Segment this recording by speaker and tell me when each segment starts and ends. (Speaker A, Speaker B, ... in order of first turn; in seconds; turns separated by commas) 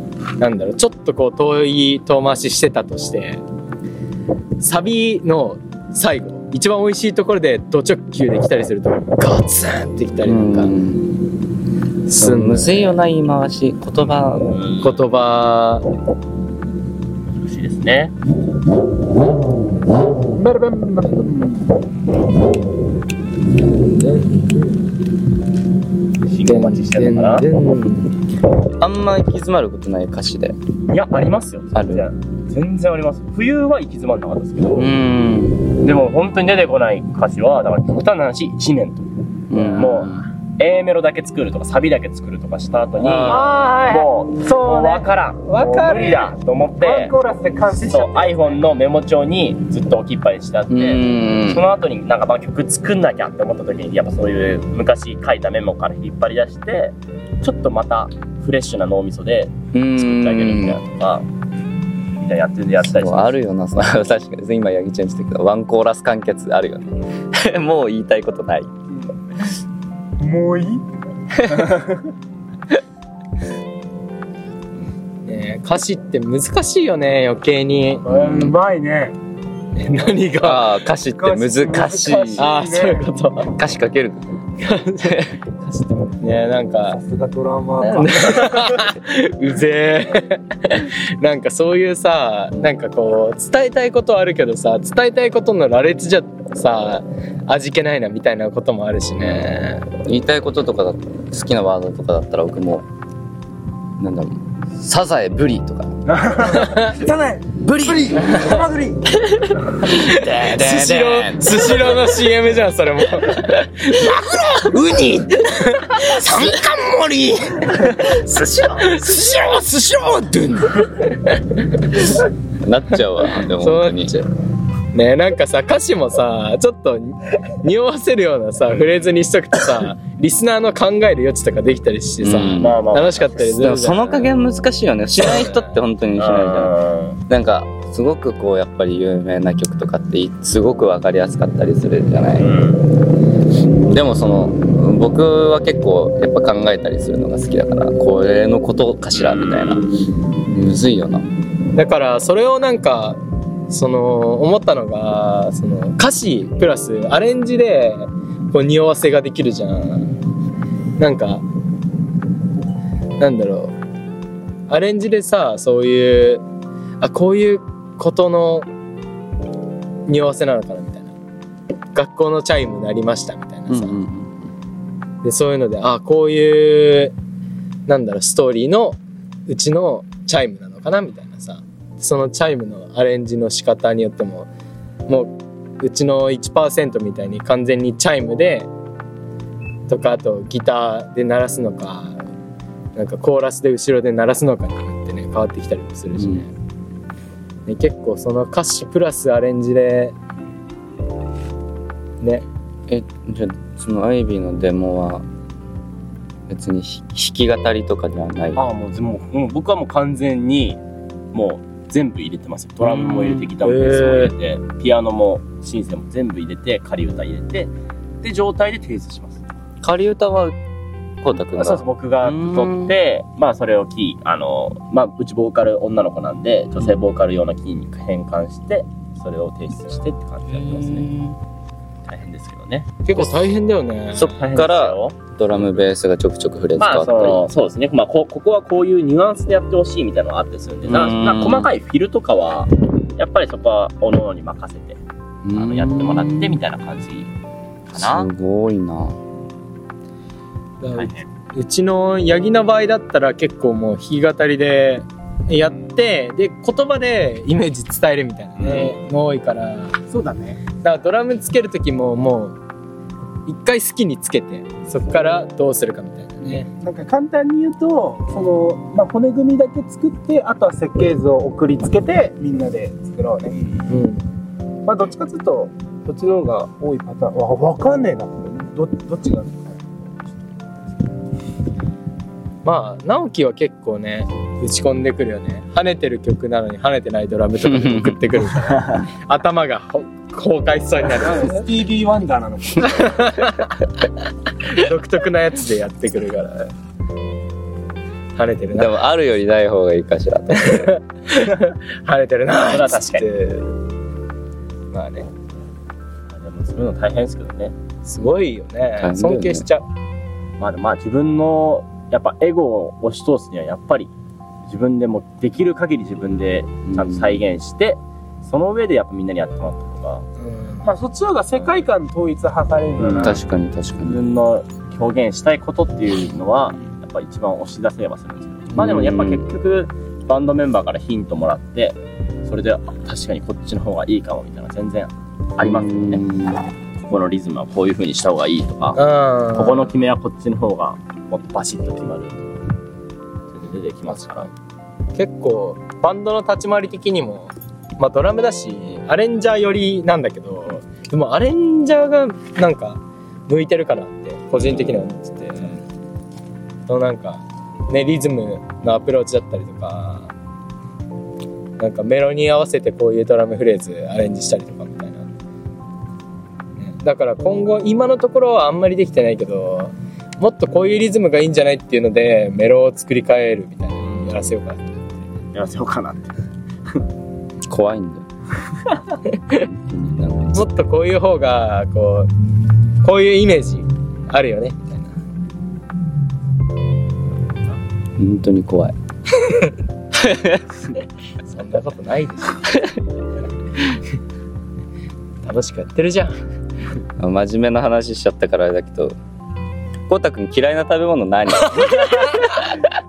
Speaker A: 0.4-3.4, Speaker A: 4.6-10.8, Speaker B: 10.2-11.2, Speaker A: 12.1-13.0, Speaker B: 12.1-14.6, Speaker C: 14.4-15.0, Speaker A: 14.8-15.8, Speaker C: 17.3-18.1, Speaker D: 20.4-21.7, Speaker A: 23.9-24.4, Speaker C: 26.2-27.5, Speaker A: 26.4-28.2, Speaker B: 28.8-30.6, Speaker C: 30.9-34.9, Speaker B: 31.7-32.0, Speaker B: 34.8-35.7, Speaker C: 35.7-39.1, Speaker B: 39.5-40.2, Speaker D: 39.5-39.8, Speaker C: 39.7-47.1, Speaker B: 43.0-43.4, Speaker D: 43.1-48.6, Speaker C: 47.7-61.3, Speaker B: 50.7-51.6, Speaker B: 59.7-60.8, Speaker C: 62.2-63.3, Speaker B: 62.8-68.7, Speaker D: 70.2-72.1, Speaker A: 75.2-78.0, Speaker D: 78.0-79.2, Speaker B: 78.1-78.6, Speaker A: 79.8-80.7, Speaker B: 80.4-82.5, Speaker D: 81.1-83.1, Speaker A: 82.4-83.5, Speaker B: 83.5-84.3, Speaker A: 84.6-87.0, Speaker B: 85.0-85.3, Speaker D: 86.9-88.8, Speaker A: 87.8-99.9, Speaker B: 99.2-102.8, Speaker B: 104.0-105.9, Speaker D: 106.1-109.2, Speaker A: 106.5-107.0, Speaker A: 109.5-120.2, Speaker B: 109.9-111.8, Speaker D: 114.9-115.3, Speaker D: 116.1-117.8, Speaker D: 119.2-120.6, Speaker A: 120.7-122.2, Speaker B: 122.6-124.1, Speaker A: 123.4-124.3, Speaker A: 124.9-134.3, Speaker B: 132.2-132.8, Speaker C: 132.6-133.5, Speaker B: 133.5-136.7, Speaker A: 135.4-135.7, Speaker C: 136.2-137.2, Speaker B: 137.3-142.5, Speaker C: 142.4-142.8, Speaker B: 143.9-149.9, Speaker C: 149.2-149.9, Speaker B: 150.4-151.2, Speaker A: 151.7-160.1, Speaker A: 161.0-161.4, Speaker A: 163.2-163.7, Speaker A: 164.7-166.4, Speaker A: 167.0-168.7, Speaker A: 170.1-171.1, Speaker A: 171.9-174.0, Speaker B: 173.7-174.5, Speaker A: 175.2-177.1, Speaker A: 177.9-184.5, Speaker A: 185.1-188.7, Speaker A: 189.9-192.2, Speaker A: 192.9-196.5, Speaker B: 196.2-196.4, Speaker A: 197.7-200.1, Speaker B: 202.9-205.2, Speaker B: 206.5-208.6, Speaker C: 208.5-210.8, Speaker C: 211.3-217.7, Speaker B: 212.8-213.6, Speaker A: 213.6-214.3, Speaker C: 218.2-219.4, Speaker B: 219.8-220.6, Speaker B: 221.2-222.9, Speaker C: 221.4-231.1, Speaker B: 230.5-231.4, Speaker C: 232.1-233.0, Speaker A: 233.0-234.3, Speaker B: 234.1-237.4, Speaker C: 234.2-235.8, Speaker C: 236.8-245.0, Speaker B: 240.9-241.7, Speaker B: 245.4-246.6, Speaker C: 245.5-247.3, Speaker C: 247.9-248.3, Speaker B: 247.9-249.2, Speaker A: 250.8-260.0, Speaker C: 250.9-251.2, Speaker C: 258.6-259.0, Speaker D: 260.1-260.6, Speaker A: 260.8-262.6, Speaker A: 263.4-266.7, Speaker D: 266.8-273.6, Speaker A: 273.9-274.2, Speaker D: 274.8-280.0, Speaker A: 282.6-291.6, Speaker B: 287.6-288.4, Speaker D: 291.1-293.4, Speaker A: 292.8-293.8, Speaker A: 294.6-296.7, Speaker A: 298.4-299.0, Speaker B: 298.7-300.9, Speaker A: 300.5-303.7, Speaker C: 302.7-303.2, Speaker A: 304.9-305.3, Speaker C: 306.3-307.7, Speaker A: 308.0-309.8, Speaker B: 309.0-309.6, Speaker C: 310.6-314.1, Speaker C: 314.6-320.2, Speaker B: 316.9-317.4, Speaker A: 320.4-320.9, Speaker D: 320.8-323.4, Speaker C: 323.0-323.4, Speaker B: 323.2-324.2, Speaker C: 324.0-336.2, Speaker B: 328.7-329.4, Speaker B: 335.6-336.7, Speaker C: 337.0-339.0, Speaker A: 339.0-339.9, Speaker C: 339.5-342.6, Speaker C: 343.5-344.5, Speaker A: 345.1-355.8, Speaker C: 354.5-355.0, Speaker A: 356.9-360.3, Speaker A: 361.8-365.3, Speaker A: 366.8-375.1, Speaker C: 374.0-374.3, Speaker C: 375.5-376.3, Speaker B: 377.7-378.2, Speaker B: 379.6-380.6, Speaker A: 380.5-382.3, Speaker A: 383.0-385.1, Speaker B: 388.2-388.9, Speaker B: 390.1-390.6, Speaker A: 391.4-392.6, Speaker A: 395.4-396.4, Speaker B: 397.2-399.1, Speaker B: 400.1-403.0